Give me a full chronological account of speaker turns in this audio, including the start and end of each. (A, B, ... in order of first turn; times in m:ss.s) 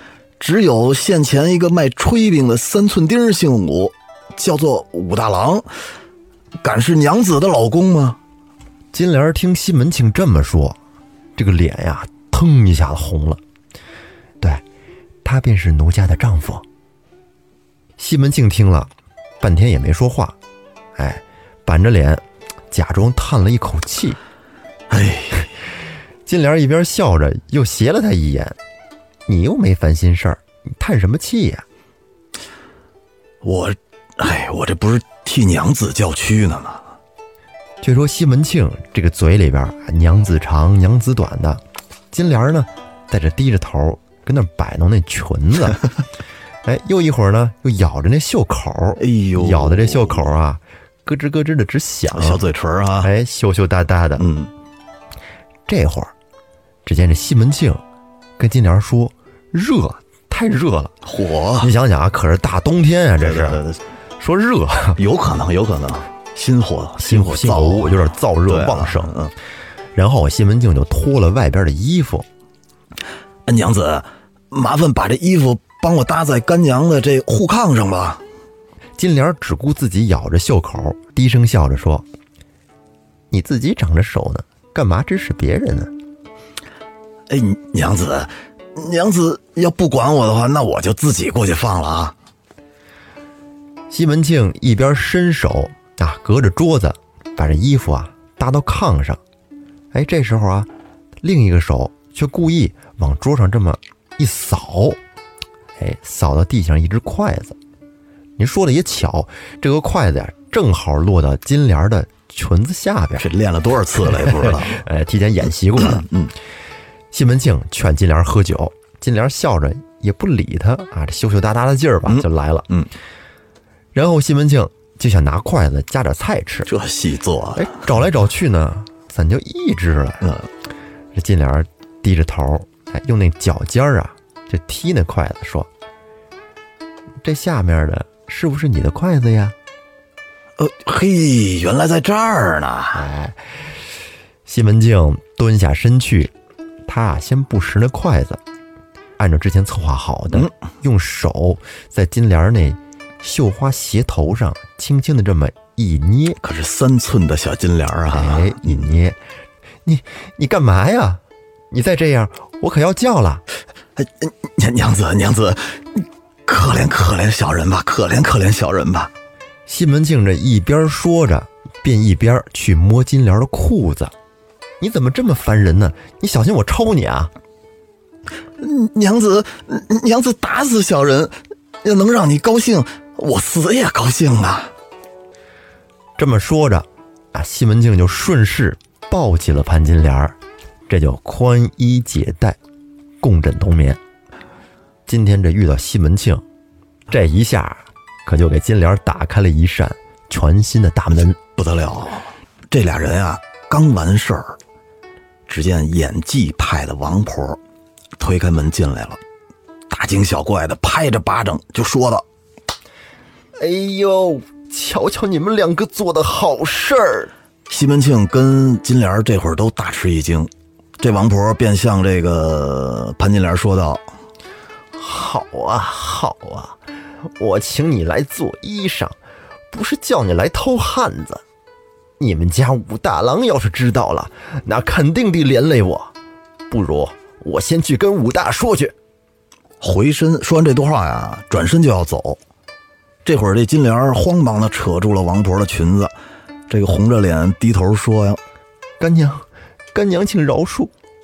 0:00.4-0:05.7 A
0:06.6-0:08.2 A
0:08.9-0:10.8 B
0:11.4-0:13.4 B
0:15.2-0:16.6 B
0:18.0-0:20.4 B
0:21.0-0:24.2 B
0:24.9-0:25.5 A
0:26.3-0:28.6 B
0:29.3-0:31.6 B
0:33.4-0:36.8 A
0:37.8-0:41.6 B
0:42.1-0:45.9 B
0:46.6-0:54.3 B
0:49.0-0:50.3 A
0:52.1-0:53.1 A
0:54.2-0:54.5 A
0:55.7-0:56.1 B
0:56.8-0:57.8 B
0:58.4-1:00.9 B
1:01.0-1:01.7 A
1:01.6-1:03.6 B
1:03.2-1:03.8 A
1:04.2-1:05.0 B
1:05.0-1:09.3 A
1:07.0-1:09.1 B
1:10.0-1:12.3 B
1:13.5-1:18.2 A
1:19.0-1:22.1 B
1:23.3-1:25.9 B
1:27.3-1:32.2 A
1:33.9-1:39.2 B
1:39.9-1:40.7 B
1:41.2-1:45.0 B
1:45.8-1:47.6 B
1:48.4-1:53.3 B
1:53.2-1:54.8 A
1:54.2-1:56.1 B
1:55.8-1:56.4 A
1:57.1-2:02.7 B
2:02.1-2:02.9 A
2:03.9-2:06.7 B
2:06.7-2:07.9 A
2:07.6-2:10.4 B
2:10.2-2:10.5 A
2:11.2-2:15.7 B
2:17.2-2:19.6 B
2:20.6-2:23.1 A
2:22.9-2:23.6 B
2:24.5-2:26.3 B
2:26.9-2:28.4 B
2:29.2-2:36.4 B
2:36.4-2:38.9 A
2:38.1-2:39.2 B
2:39.8-2:43.4 B
2:44.0-2:49.1 A
2:49.7-2:54.1 B
2:54.8-2:57.3 B
2:58.6-3:04.7 A
3:06.2-3:10.4 B
3:10.9-3:12.6 B
3:13.2-3:14.0 B
3:15.1-3:16.4 B
3:17.1-3:21.4 B
3:21.6-3:24.6 A
3:25.5-3:27.6 A
3:28.2-3:29.2 A
3:29.9-3:32.3 A
3:33.6-3:37.3 B
3:37.7-3:44.0 A
3:44.9-3:46.8 B
3:47.4-3:49.2 B
3:49.7-3:51.4 B
3:52.2-3:56.1 B
3:56.7-3:58.9 B
3:59.8-4:02.4 A
4:03.2-4:06.1 A
4:06.7-4:08.4 A
4:09.0-4:10.9 B